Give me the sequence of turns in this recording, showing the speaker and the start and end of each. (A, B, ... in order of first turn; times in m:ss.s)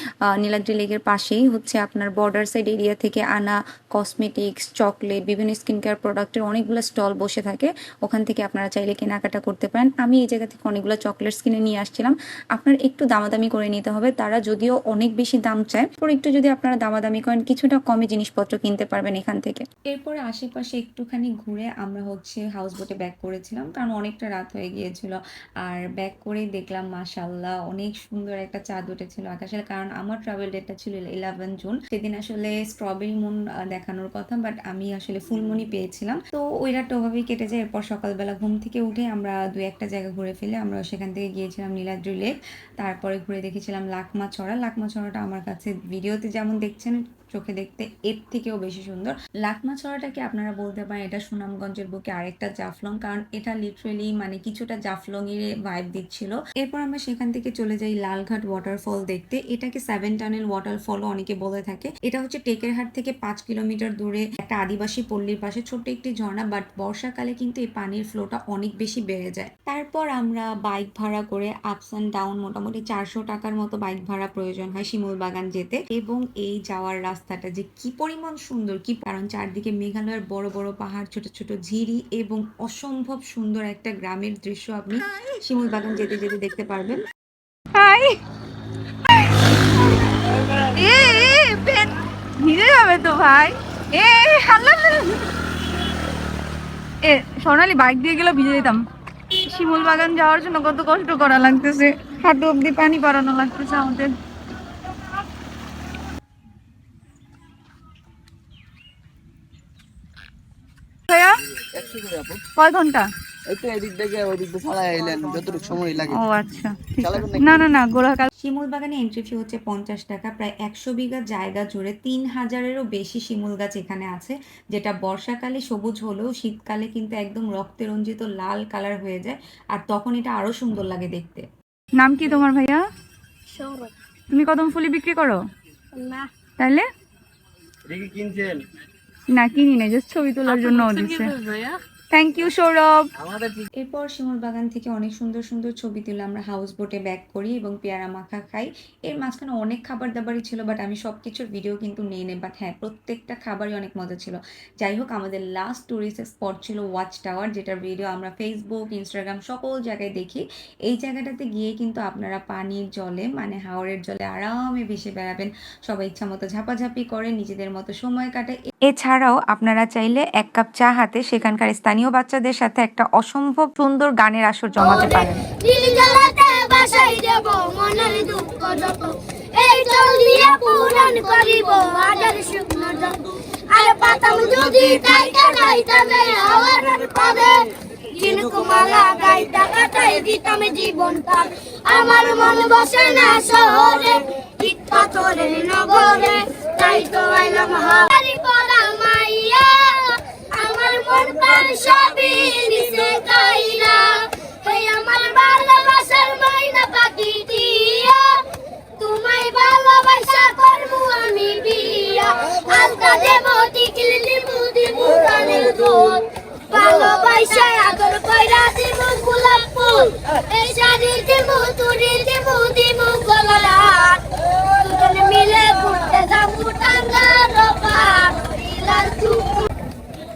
0:00.4-1:27.0 A
1:27.8-1:28.2 B
1:30.8-1:31.9 B
1:32.5-1:35.2 B
1:37.1-1:38.8 B
1:37.7-1:38.0 A
1:39.5-1:43.1 B
1:40.3-1:40.9 A
1:41.8-1:44.0 A
1:43.7-1:44.0 B
1:51.1-1:51.4 B
1:51.6-1:52.4 C
1:52.6-1:53.0 B
1:52.6-1:52.9 A
1:53.5-1:56.2 C
1:56.3-1:56.8 A
1:57.0-1:57.7 C
1:57.0-1:58.2 B
1:58.4-2:11.5 A
2:12.0-2:12.5 B
2:12.1-2:12.8 A
2:13.5-2:13.9 D
2:14.3-2:15.4 A
2:16.0-2:16.3 D
2:17.9-2:18.6 C
2:19.4-2:21.3 A
2:20.4-2:21.3 B
2:22.2-2:22.8 B
2:22.2-2:23.0 A
2:23.2-2:23.6 C
2:23.8-2:55.4 A
2:54.8-3:28.4 D
3:29.0-3:49.7 D